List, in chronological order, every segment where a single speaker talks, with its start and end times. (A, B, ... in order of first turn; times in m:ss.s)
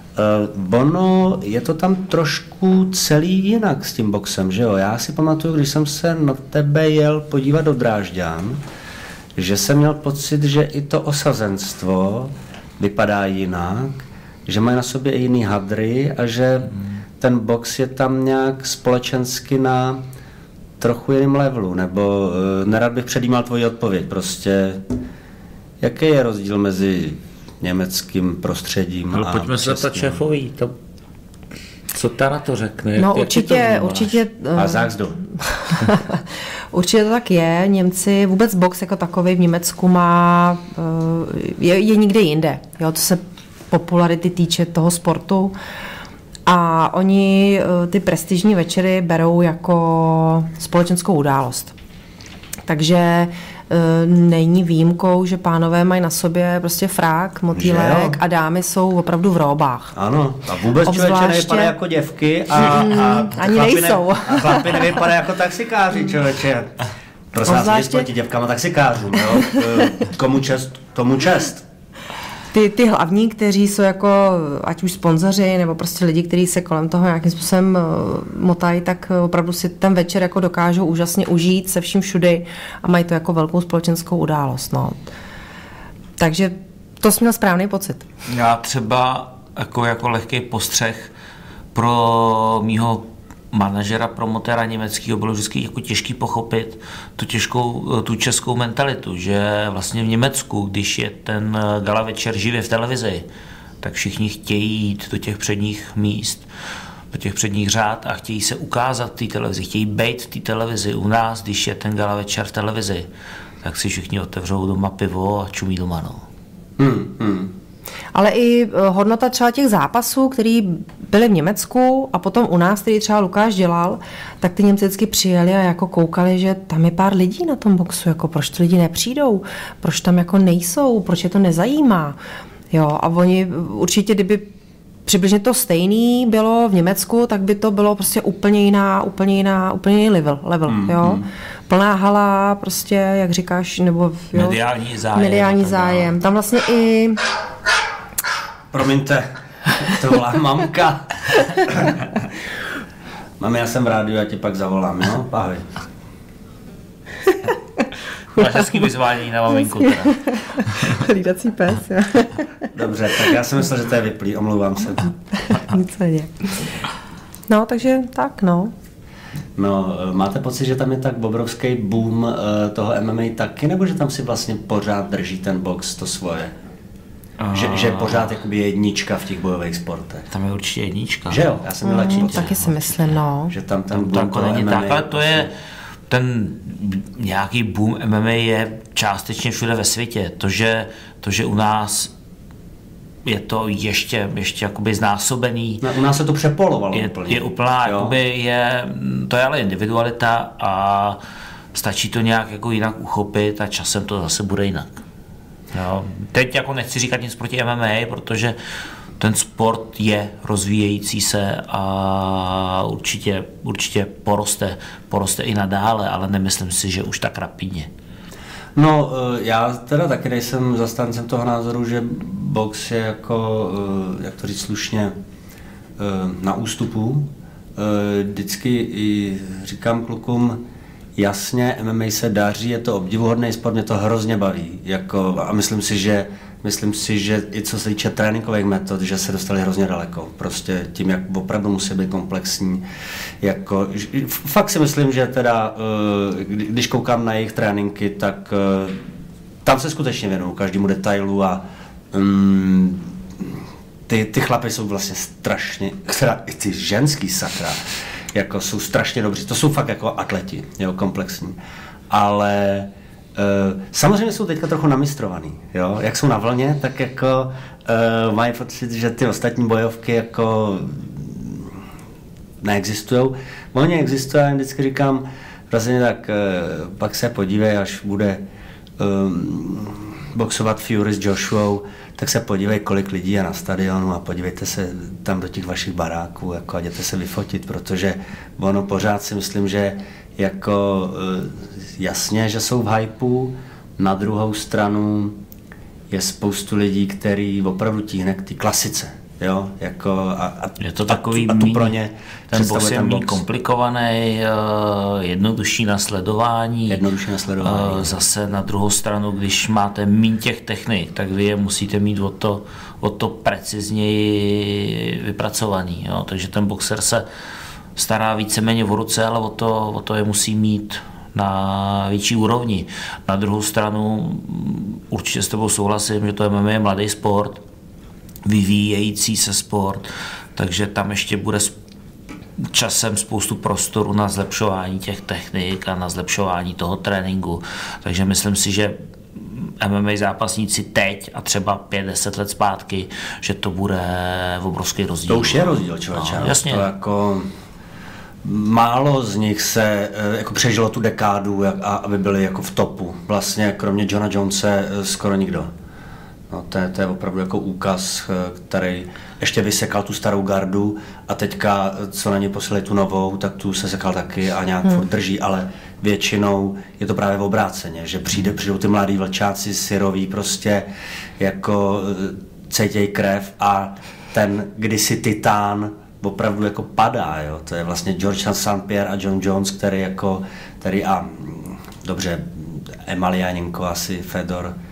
0:00.2-0:08.6 A
0:09.4-0:20.0 A
0:20.8-0:24.8 A
0:25.8-0:30.2 A
0:29.1-0:30.7 B
0:31.9-0:34.2 B
0:33.0-0:34.9 C
0:34.5-0:35.2 A
0:35.4-0:45.6 C
0:46.4-0:51.7 C
0:52.7-0:59.9 C
0:57.5-0:58.2 A
0:59.9-1:06.7 A
1:00.8-1:01.7 C
1:02.6-1:04.9 C
1:07.3-1:11.7 A
1:07.4-1:08.1 C
1:12.5-1:25.0 C
1:26.2-1:28.0 C
1:28.3-1:31.1 B
1:31.7-1:43.2 B
1:43.8-1:46.4 B
1:47.1-1:53.1 B
1:53.6-1:56.2 B
1:56.8-1:57.5 A
1:58.1-2:12.2 C
2:12.7-2:14.5 C
2:15.0-2:24.6 C
2:20.7-2:21.3 A
2:24.3-2:26.2 B
2:25.1-2:27.2 C
2:28.7-2:32.0 A
2:33.4-2:35.7 A
2:38.3-2:40.9 B
2:39.6-2:42.6 C
2:42.7-2:45.1 A
2:45.4-2:46.6 C
2:47.5-2:48.7 C
2:49.6-2:56.5 A
2:57.4-2:58.3 B
2:57.5-3:00.3 A
3:00.3-3:03.1 B
3:01.3-3:02.5 A
3:01.8-3:03.5 C
3:03.5-3:05.5 A
3:03.9-3:05.5 B
3:06.1-3:12.1 B
3:13.2-3:15.8 B
3:15.8-3:18.1 A
3:16.9-3:21.2 B
3:21.7-3:25.0 B
3:25.7-3:28.6 B
3:29.2-3:37.9 B
3:38.7-3:45.2 A
3:46.0-3:50.6 A
3:51.2-4:02.8 A
4:03.4-4:09.0 A
4:09.6-4:21.6 A
4:22.1-4:31.8 A
4:32.6-4:38.4 A
4:39.0-4:55.4 A
4:56.1-5:03.4 A
5:00.8-5:02.0 B
5:02.5-5:07.0 B
5:06.9-5:08.1 A
5:07.6-5:17.2 B
5:18.0-5:27.6 B
5:28.4-5:31.7 B
5:32.7-5:46.9 B
5:45.3-5:47.5 A
5:48.4-5:55.7 A
5:56.5-6:10.9 A
6:11.4-6:24.8 A